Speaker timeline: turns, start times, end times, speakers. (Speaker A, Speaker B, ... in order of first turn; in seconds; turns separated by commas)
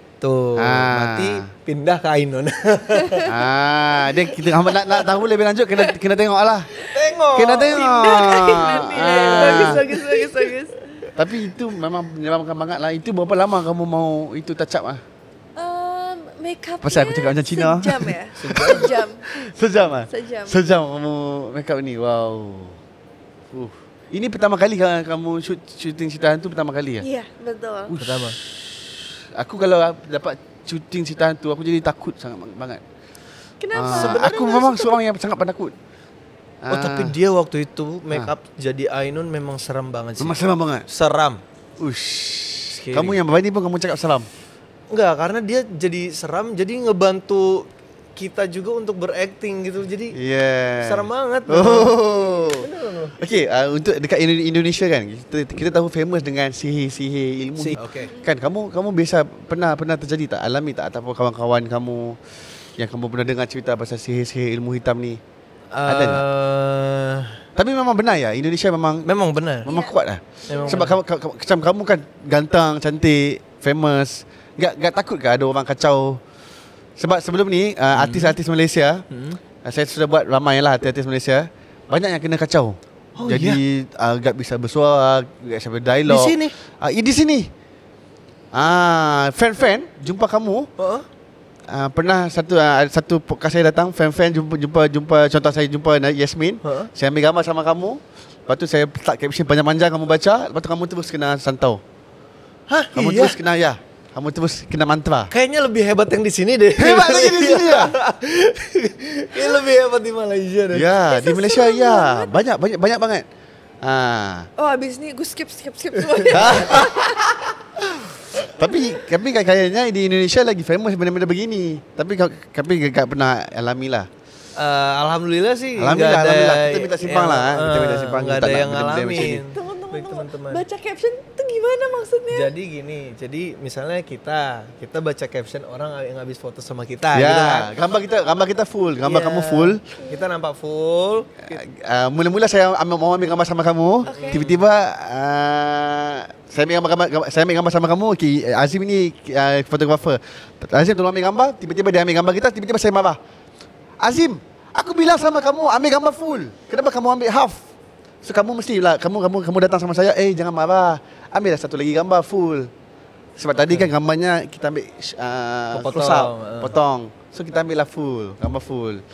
Speaker A: 0.2-3.4, Speaker B: 0.6-1.5, Speaker C: 3.0-3.2, Speaker B: 3.3-6.8, Speaker A: 6.9-10.2, Speaker B: 7.3-10.0, Speaker C: 7.7-10.8, Speaker B: 11.2-15.0, Speaker C: 15.6-19.2, Speaker B: 16.8-22.8, Speaker A: 18.4-18.9, Speaker C: 20.1-20.7, Speaker B: 23.5-27.1, Speaker C: 27.0-28.0, Speaker B: 27.9-32.8, Speaker A: 28.0-28.4, Speaker C: 33.6-35.0, Speaker B: 33.8-35.7, Speaker A: 33.9-34.5, Speaker B: 36.6-37.2, Speaker A: 36.7-41.4, Speaker B: 40.2-40.9, Speaker B: 41.8-44.3, Speaker A: 42.8-43.2, Speaker A: 44.9-50.2, Speaker B: 50.1-65.2, Speaker A: 50.8-53.2, Speaker A: 57.6-58.1, Speaker C: 58.0-58.3, Speaker A: 65.7-67.4, Speaker B: 65.9-66.2, Speaker B: 67.6-69.1, Speaker A: 69.1-69.7, Speaker B: 69.6-76.2, Speaker C: 69.7-69.9, Speaker C: 70.5-70.8, Speaker A: 70.5-71.0, Speaker B: 77.0-79.0, Speaker A: 78.0-78.3, Speaker A: 79.1-79.4, Speaker B: 79.6-87.5, Speaker A: 83.2-83.6, Speaker A: 86.1-86.5, Speaker B: 88.5-90.7, Speaker A: 90.8-91.1, Speaker B: 91.7-101.8, Speaker A: 96.6-96.9, Speaker A: 102.7-103.4, Speaker B: 102.9-105.3, Speaker A: 105.3-110.9, Speaker B: 106.8-108.0, Speaker B: 110.7-113.2, Speaker C: 111.1-112.4, Speaker B: 113.8-114.5, Speaker C: 114.6-117.4, Speaker A: 116.2-116.8, Speaker B: 116.3-117.0, Speaker B: 117.8-124.1, Speaker A: 124.6-130.6, Speaker B: 125.8-129.4, Speaker C: 129.5-132.5, Speaker A: 132.3-137.7, Speaker B: 137.1-139.8, Speaker A: 139.0-141.6, Speaker B: 141.5-153.2, Speaker C: 144.1-144.4, Speaker A: 144.1-144.6, Speaker B: 154.0-157.6, Speaker B: 158.2-162.7, Speaker B: 163.4-169.0, Speaker A: 165.7-166.7